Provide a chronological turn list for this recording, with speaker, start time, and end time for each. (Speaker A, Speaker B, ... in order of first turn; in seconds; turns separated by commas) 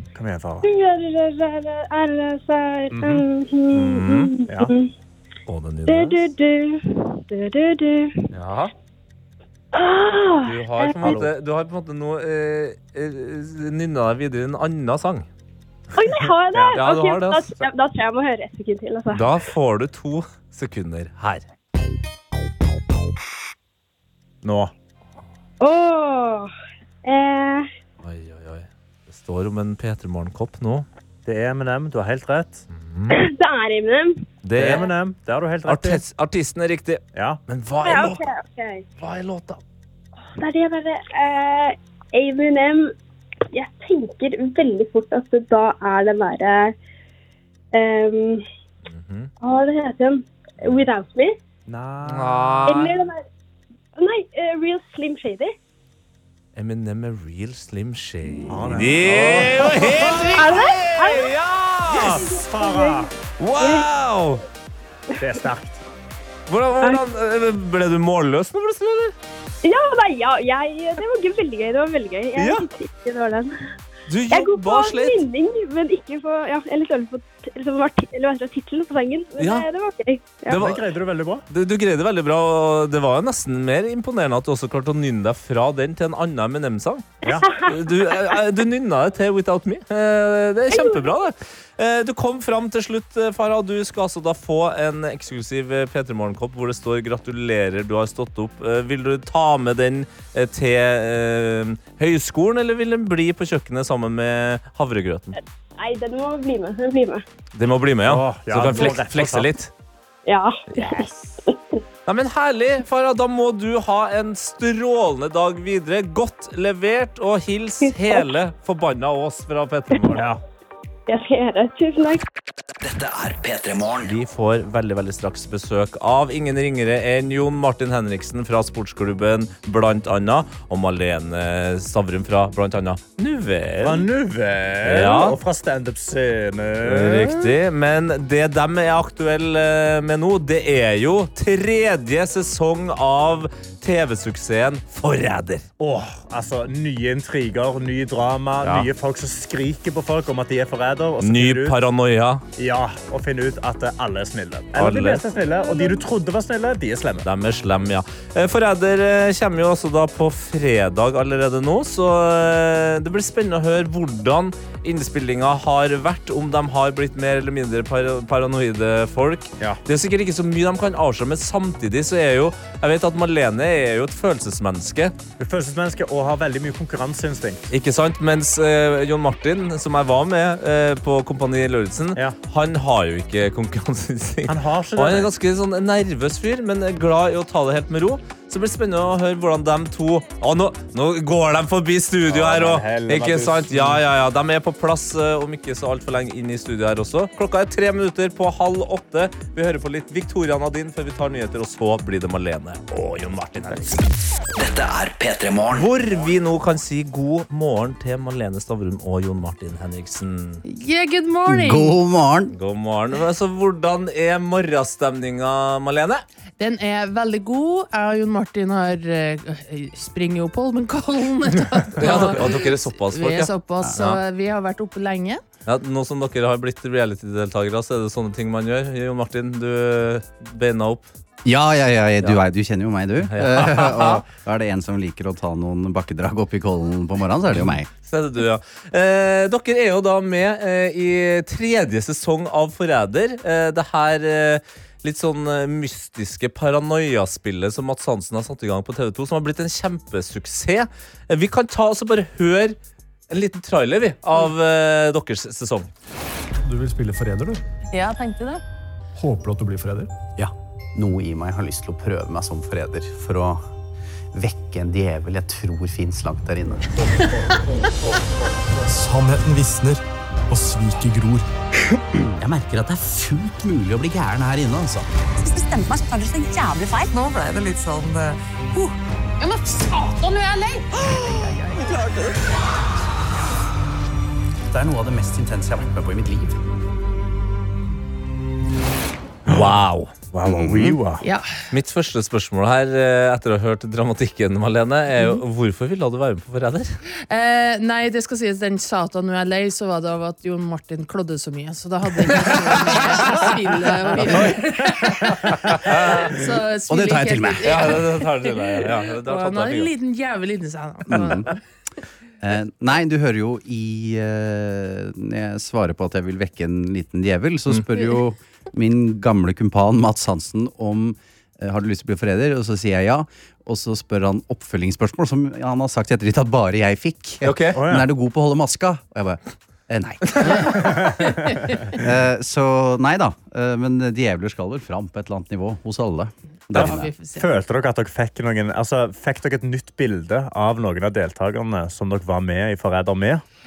Speaker A: 0.1-0.7, Speaker B: 0.6-4.9, Speaker A: 2.9-3.2, Speaker C: 3.7-4.3, Speaker A: 4.5-4.7, Speaker C: 5.5-6.2, Speaker B: 5.9-8.1, Speaker C: 8.3-8.7, Speaker B: 9.7-11.2, Speaker C: 10.4-15.3, Speaker A: 11.0-11.3, Speaker B: 15.9-19.4, Speaker C: 16.7-17.6, Speaker C: 19.1-21.4, Speaker A: 24.4-24.7, Speaker B: 25.6-26.5, Speaker B: 27.0-27.7, Speaker C: 28.0-30.9, Speaker A: 31.2-32.6, Speaker C: 32.7-33.2, Speaker B: 33.1-34.8, Speaker C: 34.4-34.9, Speaker A: 34.5-36.0, Speaker C: 35.6-38.2, Speaker A: 37.1-37.4, Speaker B: 37.8-38.8, Speaker C: 39.0-39.6, Speaker B: 40.4-42.9, Speaker B: 43.5-46.7, Speaker B: 47.7-48.4, Speaker C: 48.9-49.3, Speaker B: 49.4-51.4, Speaker A: 51.7-52.7, Speaker C: 52.1-53.0, Speaker B: 52.6-53.2, Speaker B: 54.0-55.5, Speaker C: 56.5-62.2, Speaker A: 58.5-60.4, Speaker B: 59.4-61.4, Speaker A: 61.9-63.1, Speaker B: 61.9-63.9, Speaker C: 63.4-64.4, Speaker A: 65.2-65.8, Speaker C: 66.5-69.1, Speaker B: 69.6-73.5, Speaker C: 72.3-72.7, Speaker C: 74.1-75.2, Speaker B: 74.3-80.7, Speaker C: 79.4-79.7, Speaker C: 80.5-80.8, Speaker A: 80.5-81.4, Speaker C: 81.5-105.4, Speaker B: 87.2-88.4, Speaker B: 90.7-91.1, Speaker B: 105.8-107.2, Speaker C: 107.5-109.7, Speaker A: 108.1-109.5, Speaker B: 110.2-111.5, Speaker C: 110.7-111.3, Speaker C: 112.0-120.2, Speaker B: 117.8-118.2, Speaker A: 120.1-120.4, Speaker B: 121.1-122.2, Speaker D: 122.8-124.2, Speaker C: 124.0-134.1, Speaker A: 133.8-137.5, Speaker C: 134.8-135.4, Speaker C: 136.8-145.7, Speaker A: 145.8-151.8, Speaker C: 148.6-148.9, Speaker C: 151.2-152.4, Speaker A: 152.6-157.2, Speaker C: 154.7-155.2, Speaker C: 157.2-175.1, Speaker A: 175.4-177.7, Speaker C: 177.7-204.1, Speaker A: 184.4-185.3, Speaker A: 192.3-194.0, Speaker D: 204.6-205.9, Speaker C: 205.7-210.6, Speaker E: 210.7-211.9, Speaker F: 211.5-212.5, Speaker C: 212.5-216.2, Speaker E: 216.6-225.4, Speaker C: 222.0-224.2, Speaker C: 225.7-231.1, Speaker F: 231.4-237.9, Speaker C: 233.3-234.2, Speaker C: 237.5-252.8, Speaker C: 253.3-255.9, Speaker G: 256.6-257.6, Speaker E: 257.9-258.6, Speaker G: 259.1-260.5, Speaker F: 260.9-263.6, Speaker F: 264.3-266.8, Speaker G: 268.7-271.4, Speaker F: 272.1-275.1, Speaker H: 275.4-278.9, Speaker E: 279.4-280.9, Speaker F: 281.1-282.3, Speaker F: 284.7-286.6, Speaker C: 289.5-290.1, Speaker A: 290.3-291.2, Speaker F: 290.4-291.0, Speaker E: 291.2-291.5, Speaker C: 291.7-297.0, Speaker E: 297.3-311.6, Speaker C: 302.3-303.5, Speaker C: 304.1-306.3, Speaker F: 306.9-307.8, Speaker C: 307.6-309.9, Speaker F: 311.1-311.5, Speaker F: 312.4-331.1, Speaker C: 327.4-327.9, Speaker A: 327.7-328.1, Speaker C: 330.3-330.6, Speaker A: 330.8-331.3, Speaker E: 331.2-331.8, Speaker F: 331.9-337.1, Speaker A: 336.7-343.4, Speaker E: 336.8-337.4